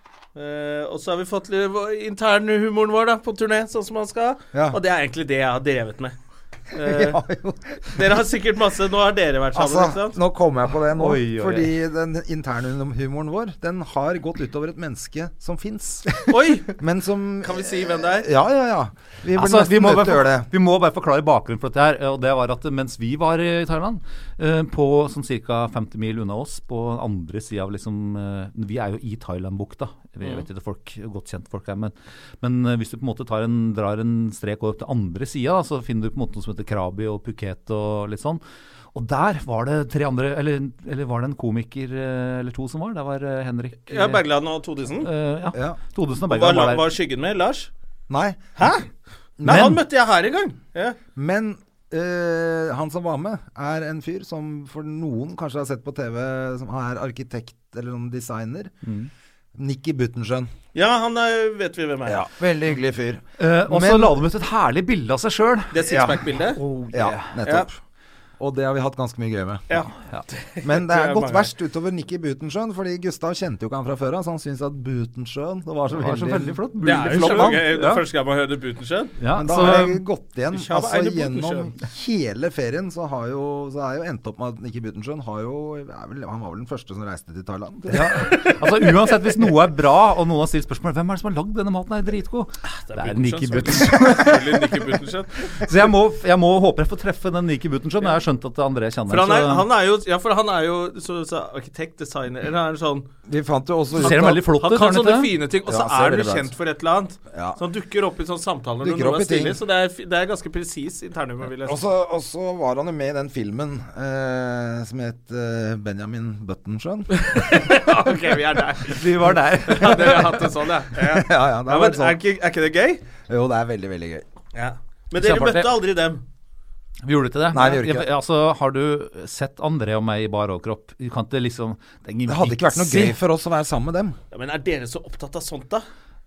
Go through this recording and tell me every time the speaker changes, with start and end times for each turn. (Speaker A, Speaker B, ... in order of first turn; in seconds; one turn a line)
Speaker A: 0.3-6.2
Speaker B: 4.5-4.8
Speaker A: 6.7-7.2
Speaker B: 6.8-8.1
Speaker A: 7.9-10.2
Speaker B: 9.5-20.5
Speaker C: 11.0-11.8
Speaker A: 16.3-16.8
Speaker A: 17.4-18.3
Speaker C: 19.3-38.4
Speaker C: 38.9-44.2
Speaker A: 43.9-45.1
Speaker C: 45.0-46.9
Speaker A: 46.3-47.7
Speaker B: 48.1-48.4
Speaker A: 48.6-48.9
Speaker B: 49.4-49.8
Speaker A: 49.4-51.0
Speaker C: 49.5-49.8
Speaker B: 51.2-58.7
Speaker C: 58.8-59.1
Speaker B: 59.6-60.5
Speaker A: 60.8-62.3
Speaker B: 62.0-64.2
Speaker C: 63.4-67.4
Speaker A: 65.7-66.6
Speaker B: 65.9-66.2
Speaker B: 66.9-67.8
Speaker B: 68.4-69.8
Speaker A: 69.7-71.5
Speaker B: 70.6-77.9
Speaker C: 75.9-78.0
Speaker A: 76.8-79.2
Speaker C: 79.2-80.0
Speaker B: 79.3-88.3
Speaker A: 80.5-81.7
Speaker C: 87.9-94.9
Speaker A: 92.7-95.5
Speaker C: 95.5-99.7
Speaker A: 99.1-103.1
Speaker B: 103.3-104.4
Speaker C: 104.0-105.3
Speaker A: 104.0-111.8
Speaker B: 105.7-106.5
Speaker B: 107.3-107.6
Speaker B: 108.8-109.6
Speaker B: 111.6-117.2
Speaker A: 117.1-123.0
Speaker C: 118.9-120.4
Speaker B: 121.0-122.2
Speaker B: 123.3-124.2
Speaker A: 124.5-126.2
Speaker C: 125.2-125.7
Speaker C: 127.0-133.2
Speaker B: 127.5-128.1
Speaker B: 132.3-134.2
Speaker A: 134.3-135.8